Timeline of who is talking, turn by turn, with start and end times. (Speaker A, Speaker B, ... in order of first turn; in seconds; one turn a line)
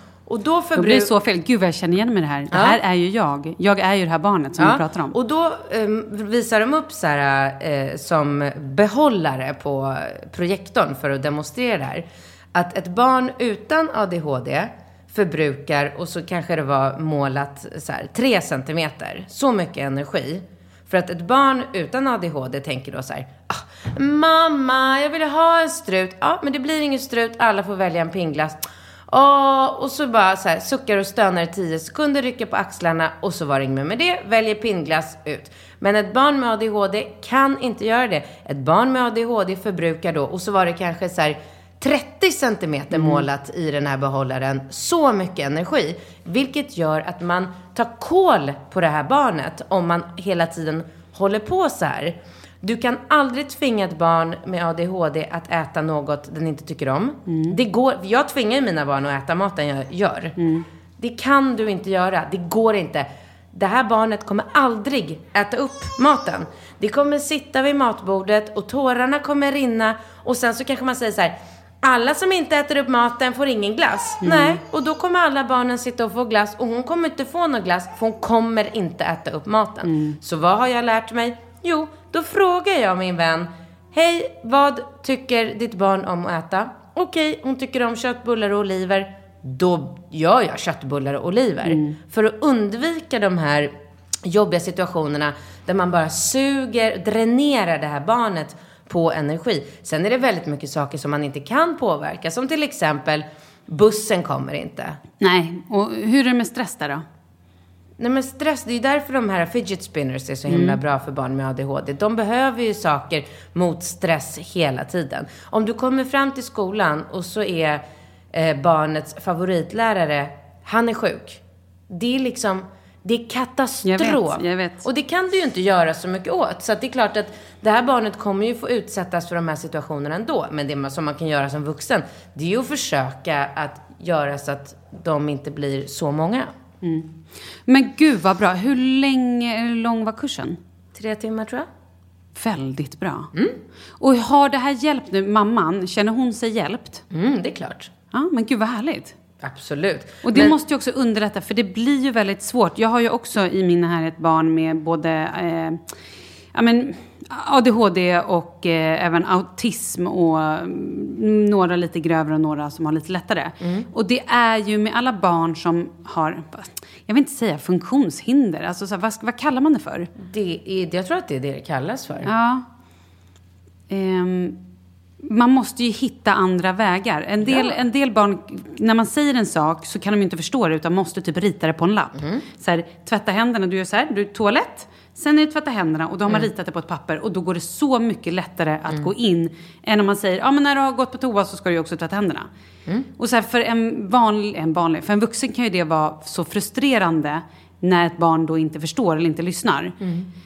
Speaker A: 0.3-1.1
Speaker B: 0.8-5.2
Speaker A: 2.5-2.8
Speaker A: 4.6-60.3
Speaker B: 42.9-43.3
Speaker B: 57.3-57.6
Speaker B: 60.4-60.6
Speaker A: 61.0-93.7
Speaker B: 74.2-74.6
Speaker B: 79.8-80.2
Speaker B: 91.6-92.0
Speaker A: 94.2-105.0
Speaker B: 105.2-107.0
Speaker A: 108.0-136.5
Speaker B: 110.5-110.8
Speaker B: 123.8-124.8
Speaker B: 136.8-137.1
Speaker B: 137.7-140.6
Speaker A: 140.9-141.7
Speaker B: 142.3-143.3
Speaker B: 144.0-147.0
Speaker A: 147.1-147.9
Speaker B: 148.1-149.1
Speaker A: 149.4-150.6
Speaker B: 150.2-155.8
Speaker B: 156.5-170.1
Speaker A: 163.6-163.9
Speaker A: 170.2-172.3
Speaker B: 172.2-172.6
Speaker B: 173.9-174.6
Speaker B: 175.2-192.5
Speaker A: 177.4-177.8
Speaker A: 182.2-182.4
Speaker B: 193.2-200.0
Speaker A: 200.0-200.3